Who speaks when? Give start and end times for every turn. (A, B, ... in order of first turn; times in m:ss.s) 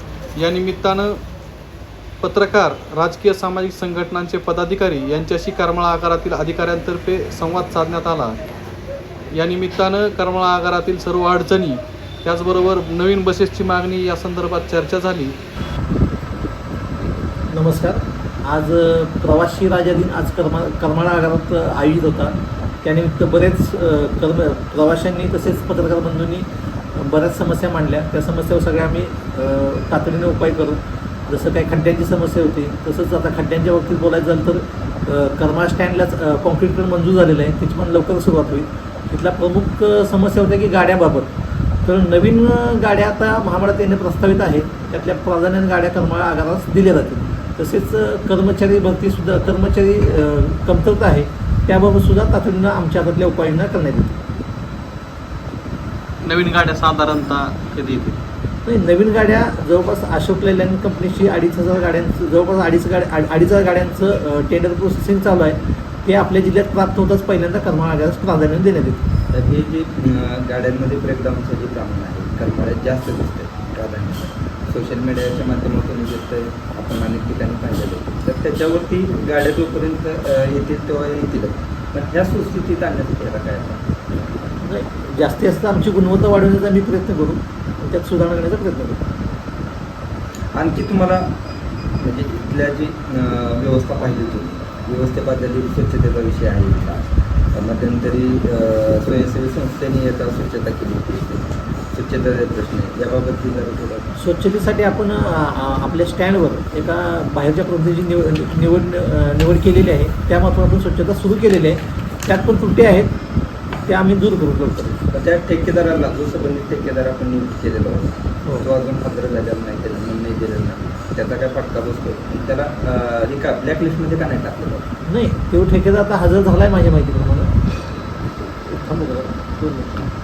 0:00.4-0:01.2 A
0:02.2-0:08.4 A
0:09.3-0:15.3 A
0:17.5-0:54.2 B
0:56.2-0:58.2 A
0:58.6-1:09.0 B
1:09.3-1:23.9 C
1:24.6-1:29.0 B
1:30.5-1:31.3 C
1:32.0-1:44.1 C
1:44.2-1:53.1 B
1:53.8-1:55.0 B
1:55.1-2:04.9 C
2:05.0-2:07.5 B
2:08.4-2:10.0 B